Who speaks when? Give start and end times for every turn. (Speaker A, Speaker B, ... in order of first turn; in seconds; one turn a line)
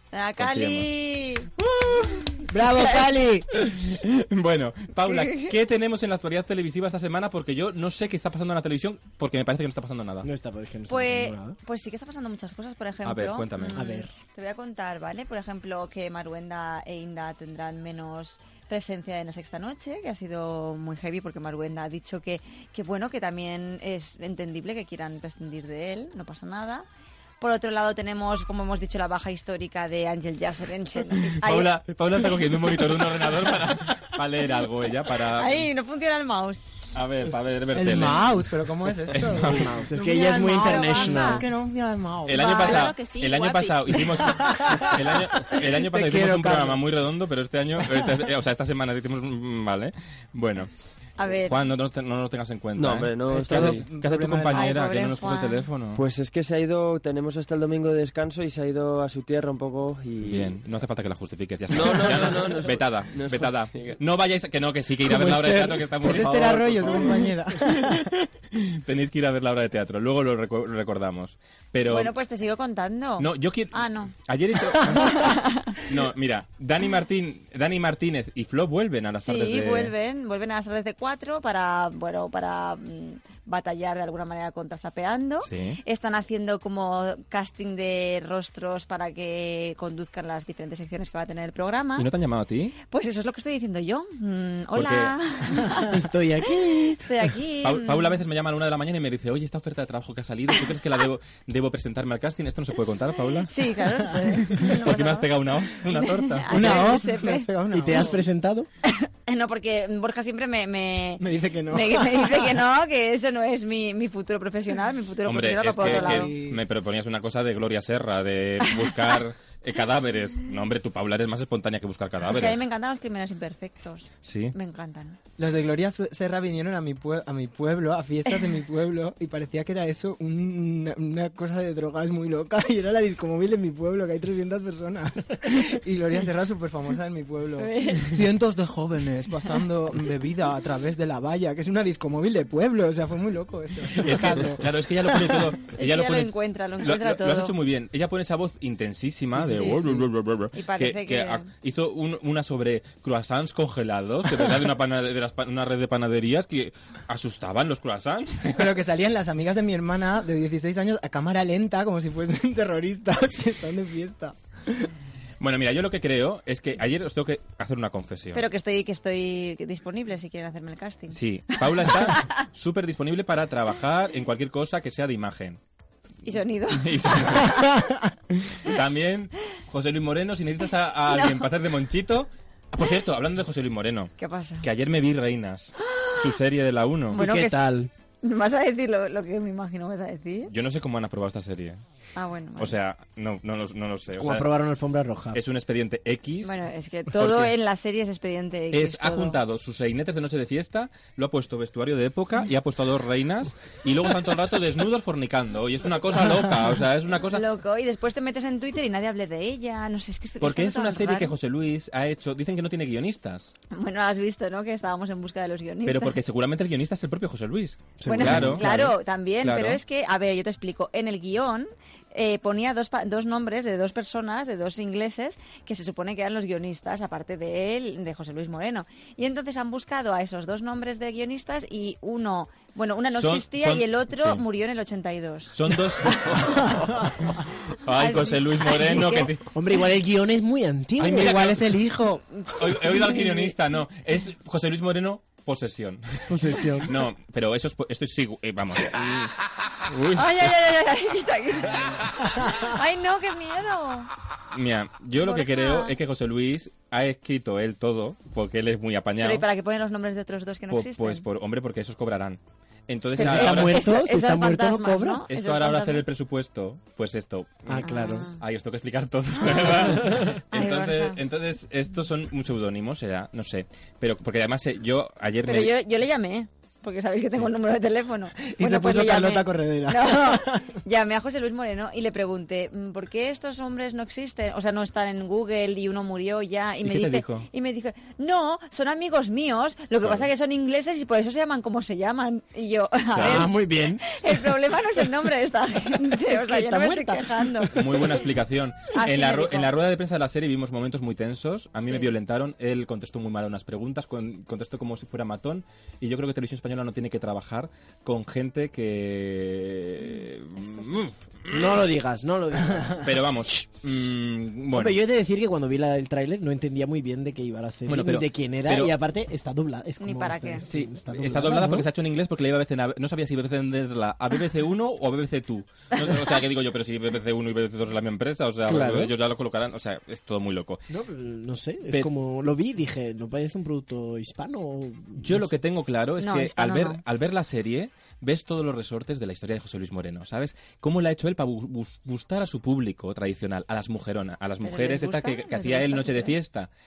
Speaker A: 0.1-1.5
Speaker B: 0.4-0.9
Speaker B: 1.6-2.4
Speaker C: 2.5-3.5
Speaker A: 2.6-3.1
Speaker B: 3.6-10.3
Speaker A: 5.1-5.5
Speaker D: 10.2-11.6
Speaker A: 10.9-26.9
Speaker B: 13.0-13.9
Speaker D: 13.8-14.1
Speaker A: 27.4-31.7
Speaker B: 31.3-35.7
Speaker A: 35.2-36.6
Speaker B: 36.9-38.4
Speaker C: 37.7-42.9
Speaker B: 39.1-39.8
Speaker D: 39.5-41.4
Speaker A: 40.4-41.4
Speaker B: 42.2-50.7
Speaker A: 42.4-43.1
Speaker C: 44.5-44.9
Speaker C: 45.6-46.8
Speaker A: 51.2-51.6
Speaker B: 51.4-56.0
Speaker E: 52.8-53.9
Speaker C: 53.3-54.8
Speaker A: 54.5-55.6
Speaker E: 55.9-60.6
Speaker B: 60.2-67.2
Speaker E: 61.7-64.0
Speaker D: 65.0-66.3
Speaker C: 66.0-68.0
Speaker B: 68.5-72.1
Speaker A: 71.8-74.1
Speaker B: 73.2-79.9
Speaker A: 75.0-75.8
Speaker A: 79.2-92.1
Speaker B: 85.4-85.8
Speaker B: 92.0-92.8
Speaker A: 92.9-98.2
Speaker B: 94.7-95.2
Speaker D: 95.8-96.9
Speaker B: 97.6-103.5
Speaker A: 103.5-108.1
Speaker B: 104.4-106.9
Speaker C: 106.5-108.2
Speaker D: 107.7-108.7
Speaker A: 108.8-116.3
Speaker C: 111.2-112.6
Speaker B: 115.2-122.6
Speaker C: 115.8-116.6
Speaker A: 122.3-125.2
Speaker B: 124.2-124.5
Speaker C: 125.4-144.7
Speaker A: 137.6-138.2
Speaker B: 144.0-158.7
Speaker A: 145.7-147.6
Speaker A: 150.5-151.5
Speaker C: 158.5-164.9
Speaker B: 165.4-168.4
Speaker A: 168.3-172.3
Speaker B: 171.1-175.6
Speaker A: 176.2-177.7
Speaker B: 176.7-177.7
Speaker B: 178.6-187.2
Speaker A: 181.1-181.5
Speaker A: 184.2-184.7
Speaker A: 185.8-186.3
Speaker D: 187.1-187.9
Speaker A: 187.1-187.6
Speaker A: 188.2-190.5
Speaker B: 190.5-191.8
Speaker A: 192.1-192.7
Speaker B: 192.6-194.5
Speaker D: 194.2-195.4
Speaker B: 195.3-196.6
Speaker A: 196.4-199.4
Speaker B: 197.1-197.5
Speaker B: 198.7-207.4
Speaker A: 207.3-211.3
Speaker B: 210.4-213.5
Speaker A: 213.7-216.2
Speaker B: 215.8-219.8
Speaker D: 218.0-218.9
Speaker A: 218.1-235.7
Speaker B: 233.1-234.4
Speaker B: 235.5-236.9
Speaker A: 236.3-236.8
Speaker B: 237.8-239.4
Speaker A: 238.0-239.3
Speaker D: 239.5-241.5
Speaker B: 241.0-241.8
Speaker C: 241.2-242.2
Speaker B: 242.6-249.3
Speaker A: 243.1-243.4
Speaker D: 246.3-246.9
Speaker B: 249.9-250.5
Speaker A: 250.1-254.1
Speaker B: 254.5-259.5
Speaker A: 255.2-255.9
Speaker A: 259.2-261.2
Speaker B: 260.7-263.9
Speaker D: 263.1-265.2
Speaker A: 263.1-266.0
Speaker B: 265.3-275.8
Speaker D: 267.7-268.3
Speaker A: 267.8-268.4
Speaker A: 269.3-271.2
Speaker A: 275.4-298.1
Speaker C: 278.5-280.7
Speaker B: 286.8-287.5
Speaker B: 293.1-293.5
Speaker D: 293.1-294.0
Speaker D: 296.3-297.3
Speaker B: 297.7-311.8
Speaker A: 298.9-299.7
Speaker A: 301.8-302.1
Speaker A: 310.6-310.9
Speaker D: 311.5-313.6
Speaker B: 313.0-315.0
Speaker D: 314.7-321.9
Speaker B: 317.9-318.9
Speaker A: 320.0-320.6
Speaker B: 320.6-330.8
Speaker D: 328.6-329.1
Speaker D: 330.9-335.5
Speaker B: 335.2-346.7
Speaker A: 336.2-337.0
Speaker A: 344.6-346.3